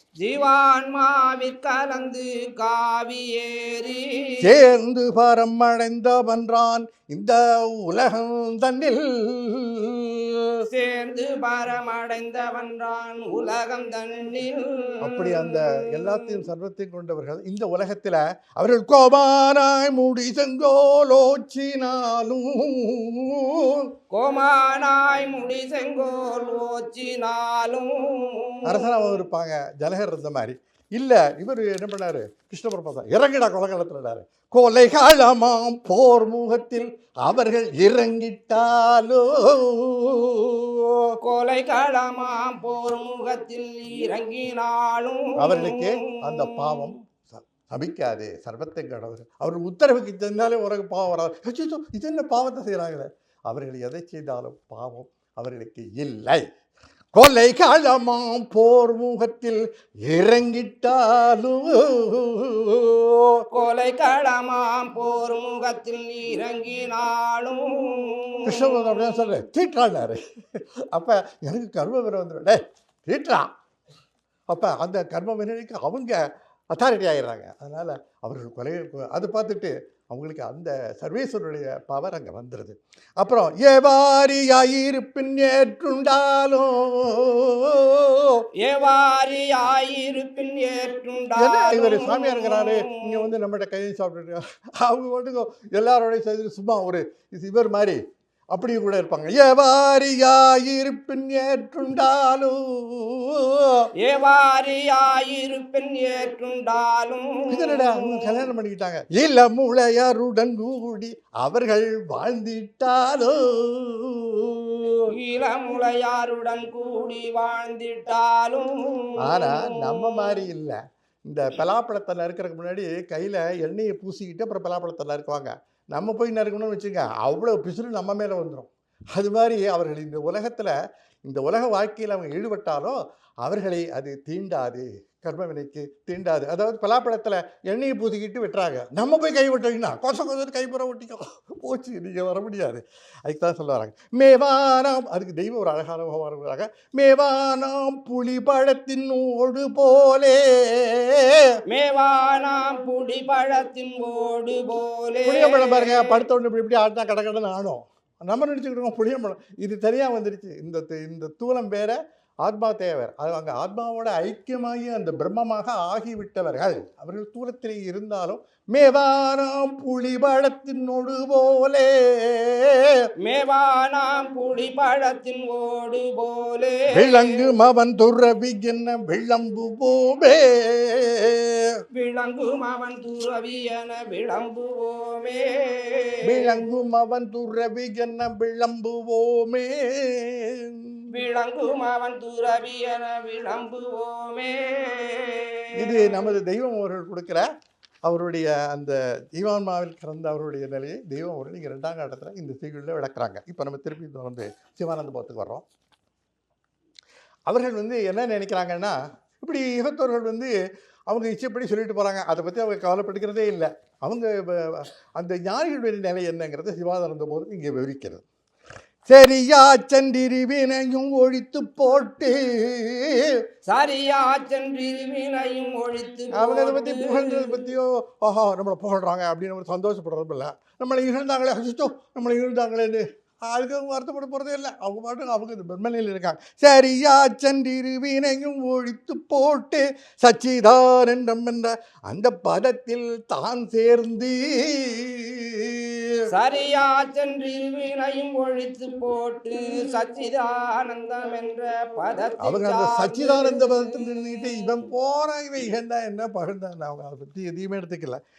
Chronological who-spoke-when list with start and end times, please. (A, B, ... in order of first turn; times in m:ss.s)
0:00.2-0:04.5 A
0:04.4-0:10.6 B
0:10.7-0:16.3 A
0:15.0-0:23.9 B
0:24.1-0:28.9 A
0:28.6-0:41.2 B
0:41.2-0:46.9 A
0:45.4-0:56.4 B
0:57.1-1:03.4 B
1:03.5-1:09.0 A
1:08.5-1:13.5 B
1:14.5-1:28.4 B
1:28.6-1:33.3 A
1:31.4-1:38.0 B
1:38.5-1:43.9 B
1:44.0-1:48.3 A
1:47.5-1:55.1 B
1:55.1-2:00.4 A
1:59.2-2:31.5 B
2:31.7-2:36.2 A
2:35.2-2:53.0 B
2:53.2-2:57.5 A
2:56.9-3:01.7 B
3:01.9-3:06.6 A
3:06.2-3:11.1 B
3:11.1-3:16.3 A
3:15.8-3:17.4 B
3:18.0-3:25.6 B
3:27.5-3:30.5 B
3:31.1-3:38.2 B
3:39.1-3:43.3 B
3:43.7-3:47.6 A
3:46.3-4:06.2 B
4:06.3-4:14.8 A
4:12.4-4:18.2 B